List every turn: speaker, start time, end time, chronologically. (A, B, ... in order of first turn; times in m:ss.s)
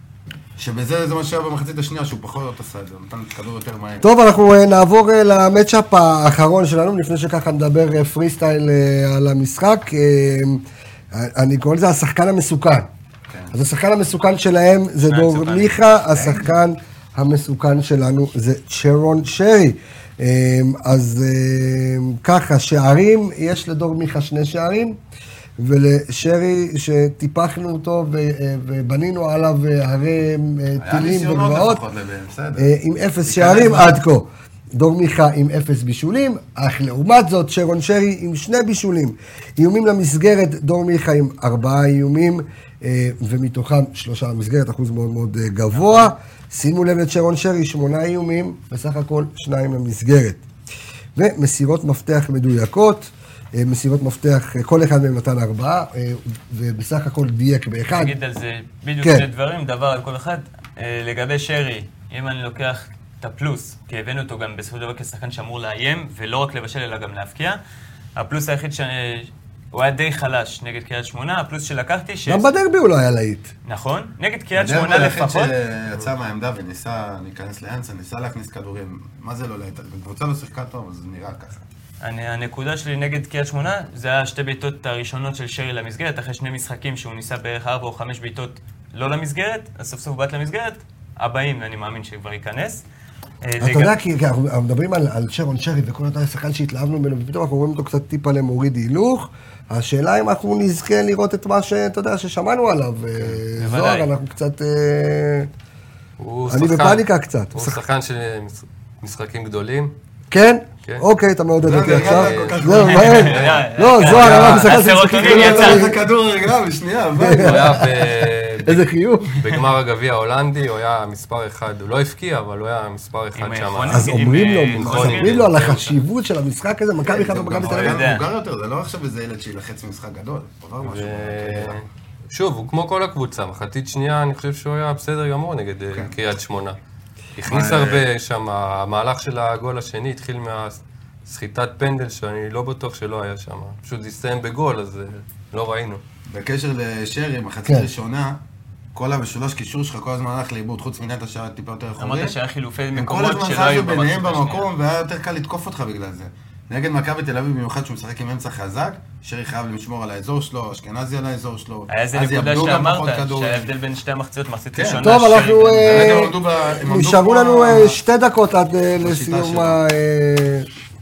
0:00.6-0:04.1 A
0:04.0-0:12.9 B
0:13.5-0:25.0 B
0:15.0-0:15.8 C
0:16.1-0:16.4 A
0:25.6-0:31.8 B
0:30.8-0:32.7 A
0:32.6-0:50.4 B
0:33.2-0:34.0 A
0:45.7-0:46.1 C
0:51.2-0:58.1 B
0:57.9-1:07.6 C
1:08.2-1:12.4 C
1:12.3-1:13.5 B
1:13.6-1:15.5 C
1:14.6-1:21.6 A
1:22.0-1:32.8 C
1:33.4-1:33.9 C
1:33.6-1:45.5 B
1:43.6-1:44.1 C
1:46.2-1:49.9 D
1:46.5-1:47.8 B
1:50.3-1:56.0 B
1:51.6-1:53.6 A
1:51.8-1:55.0 D
1:52.8-1:55.9 C
1:55.1-1:57.9 A
1:57.2-1:59.5 B
1:57.3-2:04.2 D
2:03.4-2:05.7 C
2:03.9-2:08.1 B
2:04.8-2:06.0 D
2:07.0-2:11.8 A
2:07.6-2:08.3 C
2:10.8-2:16.8 D
2:17.4-2:26.0 D
2:17.5-2:18.0 A
2:26.3-2:28.4 A
2:28.9-2:32.4 A
2:32.0-2:34.7 C
2:33.0-2:43.7 A
2:41.9-2:46.3 C
2:44.7-2:45.1 A
2:44.9-2:50.7 B
2:45.8-2:48.0 A
2:49.0-2:49.8 A